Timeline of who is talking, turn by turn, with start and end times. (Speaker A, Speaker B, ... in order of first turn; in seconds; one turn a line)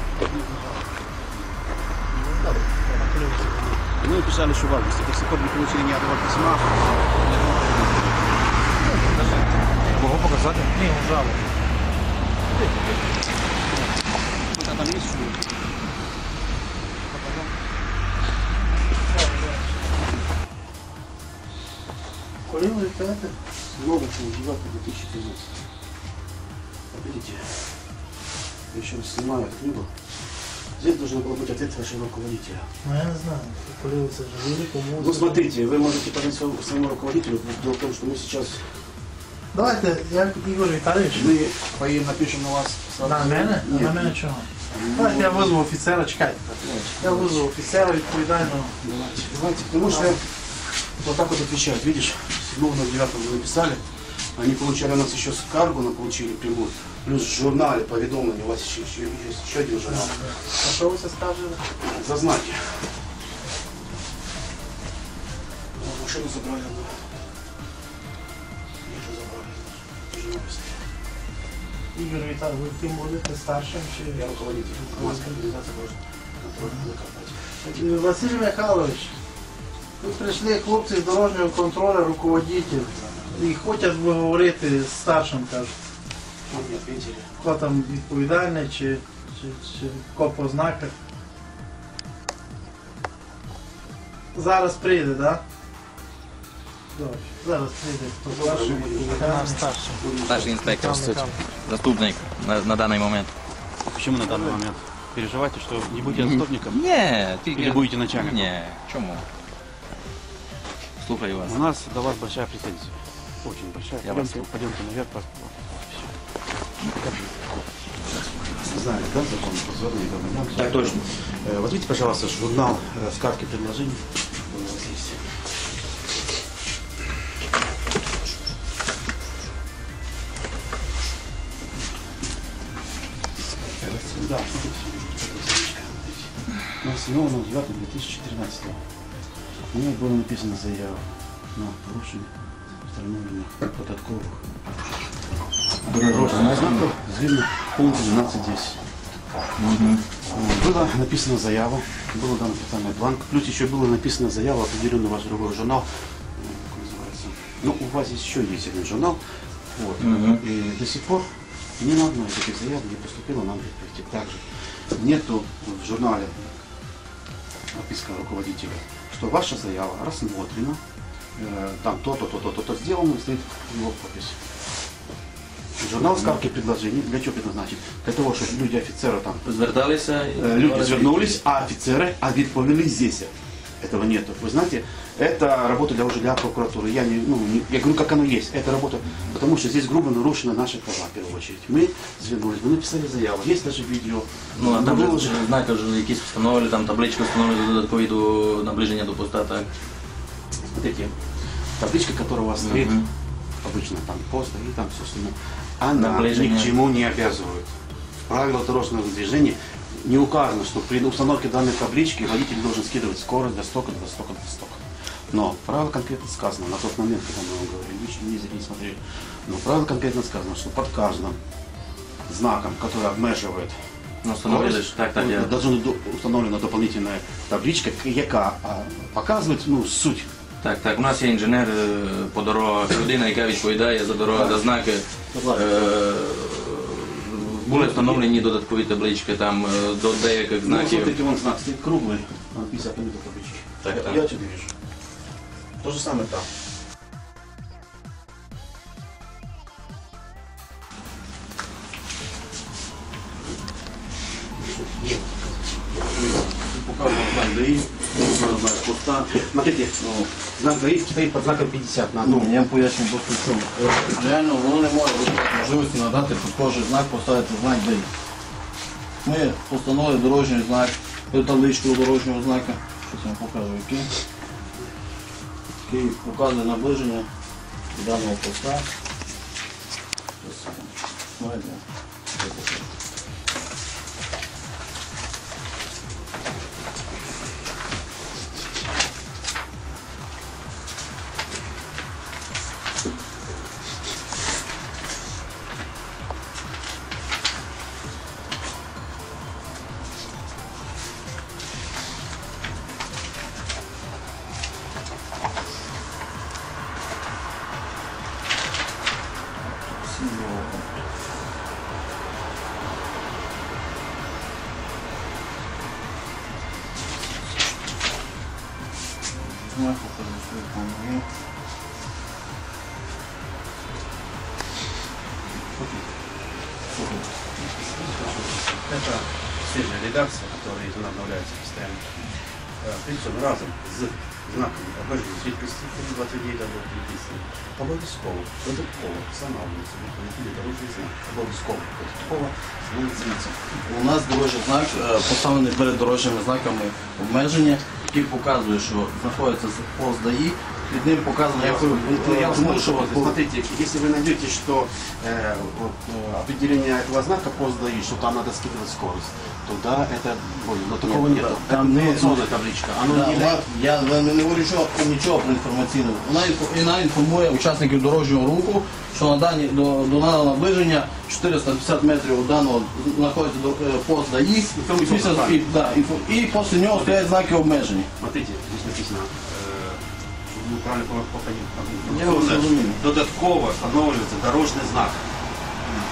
Speaker A: 0.3-0.8
Speaker B: 2.2-3.5
Speaker A: 2.4-8.3
Speaker B: 8.9-9.3
Speaker B: 9.9-11.4
Speaker A: 12.5-13.0
Speaker A: 14.4-15.6
Speaker A: 17.1-17.5
Speaker B: 19.1-19.9
Speaker B: 22.5-23.4
Speaker A: 23.6-25.5
Speaker A: 26.9-27.7
Speaker A: 28.7-29.9
Speaker A: 30.8-32.6
Speaker B: 32.8-35.4
Speaker A: 35.0-38.6
Speaker B: 39.5-41.3
Speaker A: 41.1-44.2
Speaker B: 43.0-48.7
Speaker A: 44.7-45.6
Speaker A: 46.6-47.3
Speaker A: 48.8-50.2
Speaker A: 51.0-53.8
Speaker A: 54.4-60.2
Speaker B: 59.9-61.6
Speaker A: 61.8-62.9
Speaker A: 65.8-67.1
Speaker A: 68.8-70.8
Speaker B: 72.0-74.2
Speaker A: 74.0-78.0
Speaker B: 74.8-75.4
Speaker B: 77.7-79.1
Speaker B: 80.0-85.7
Speaker A: 82.9-83.3
Speaker A: 86.5-87.3
Speaker B: 87.4-90.9
Speaker B: 94.3-95.4
Speaker B: 97.0-100.0
Speaker A: 98.3-100.7
Speaker C: 100.3-103.3
Speaker B: 100.6-101.4
Speaker A: 103.9-106.8
Speaker C: 106.2-109.2
Speaker A: 107.5-108.5
Speaker C: 111.0-111.6
Speaker A: 111.4-116.1
Speaker C: 114.0-114.5
Speaker A: 116.9-117.3
Speaker A: 118.6-125.2
Speaker A: 133.7-138.8
Speaker A: 139.7-144.4
Speaker A: 145.9-148.8
Speaker C: 145.9-146.8
Speaker C: 149.6-150.0
Speaker A: 150.3-159.2
Speaker A: 159.7-161.3
Speaker C: 160.0-160.4
Speaker A: 161.8-164.4
Speaker A: 164.9-166.5
Speaker A: 167.7-170.8
Speaker A: 171.3-174.3
Speaker A: 175.8-179.5
Speaker C: 179.4-181.3
Speaker A: 180.4-195.5
Speaker C: 194.6-199.7
Speaker A: 200.7-201.2
Speaker A: 201.8-203.0
Speaker C: 202.6-203.1
Speaker A: 203.6-207.7
Speaker C: 206.0-206.7
Speaker A: 208.3-221.4
Speaker A: 222.3-223.8
Speaker C: 224.2-225.5
Speaker A: 224.4-230.3
Speaker C: 230.6-241.2
Speaker A: 234.3-234.6
Speaker A: 235.3-235.7
Speaker A: 237.7-238.3
Speaker A: 240.6-244.7
Speaker C: 243.8-244.2
Speaker A: 245.8-246.5
Speaker A: 254.6-255.5
Speaker D: 256.1-259.3
Speaker A: 258.2-262.6
Speaker D: 260.0-260.3
Speaker D: 262.2-268.1
Speaker D: 269.2-274.1
Speaker D: 275.8-277.3
Speaker D: 277.9-278.9
Speaker D: 280.4-281.8
Speaker D: 282.4-282.8
Speaker D: 309.6-311.1
Speaker D: 319.4-321.3
Speaker A: 325.8-326.1
Speaker D: 327.0-327.2
Speaker A: 327.6-332.1
Speaker A: 332.8-343.6
Speaker D: 343.7-353.4
Speaker A: 351.6-363.6
Speaker D: 361.0-362.5
Speaker D: 363.0-378.1
Speaker A: 374.8-376.1
Speaker A: 376.9-377.2
Speaker A: 378.2-385.2
Speaker D: 382.1-383.0